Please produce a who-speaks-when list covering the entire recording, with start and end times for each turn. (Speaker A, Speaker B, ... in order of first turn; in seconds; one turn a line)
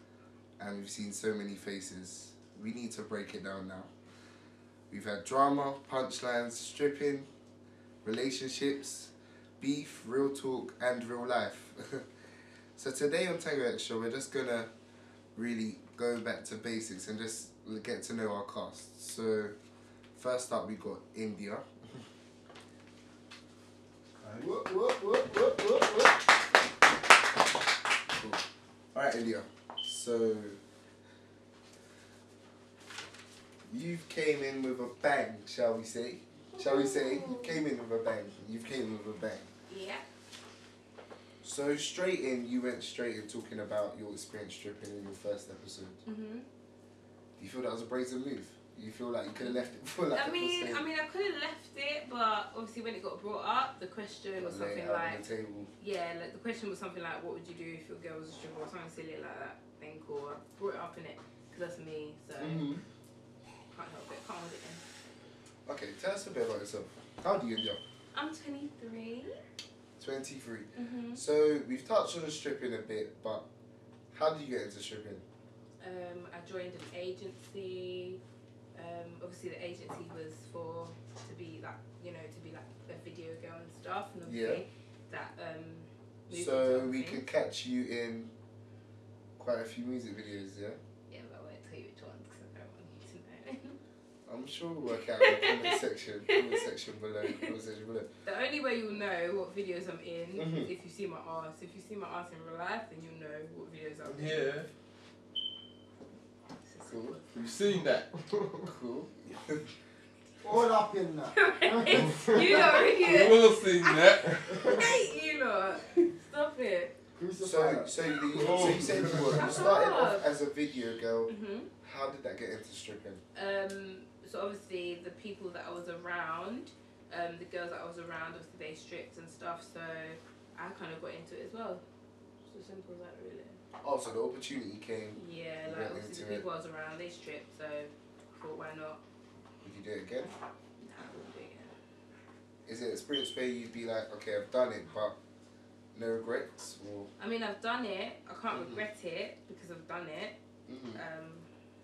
Speaker A: 0.6-3.9
Speaker A: 4.9-7.3
Speaker A: 8.0-12.1
Speaker A: 12.8-14.7
Speaker A: 15.3-19.5
Speaker A: 20.1-22.0
Speaker B: 24.2-26.2
Speaker A: 28.1-30.6
Speaker A: 33.6-39.5
Speaker C: 36.5-37.6
Speaker C: 39.7-40.0
Speaker A: 41.4-46.0
Speaker C: 46.0-46.5
Speaker A: 47.4-50.9
Speaker C: 49.4-55.2
Speaker A: 54.4-55.7
Speaker C: 55.8-62.7
Speaker A: 62.4-62.8
Speaker C: 63.7-64.8
Speaker A: 65.7-67.8
Speaker C: 68.1-69.4
Speaker A: 70.0-73.4
Speaker C: 70.7-71.2
Speaker A: 74.1-75.2
Speaker C: 75.8-78.2
Speaker C: 78.7-87.2
Speaker A: 84.2-84.6
Speaker A: 86.3-88.3
Speaker A: 89.4-90.8
Speaker C: 91.1-93.8
Speaker A: 94.2-98.1
Speaker C: 95.2-95.7
Speaker C: 96.3-96.6
Speaker C: 98.2-104.5
Speaker A: 100.3-100.7
Speaker D: 104.1-104.7
Speaker C: 106.6-107.2
Speaker A: 106.9-107.2
Speaker D: 107.3-108.2
Speaker A: 108.6-109.7
Speaker B: 110.4-112.7
Speaker C: 111.3-116.9
Speaker D: 111.9-114.9
Speaker B: 117.2-119.0
Speaker A: 117.4-123.2
Speaker D: 118.3-119.7
Speaker C: 119.3-120.3
Speaker C: 121.3-121.7
Speaker C: 123.3-131.8
Speaker C: 132.4-133.6
Speaker A: 133.8-136.4
Speaker C: 135.1-139.0
Speaker A: 139.6-140.3
Speaker C: 140.3-141.7
Speaker A: 142.7-145.2
Speaker A: 145.9-147.1
Speaker C: 147.2-150.3
Speaker A: 148.5-148.8
Speaker A: 150.7-151.0
Speaker C: 150.9-151.5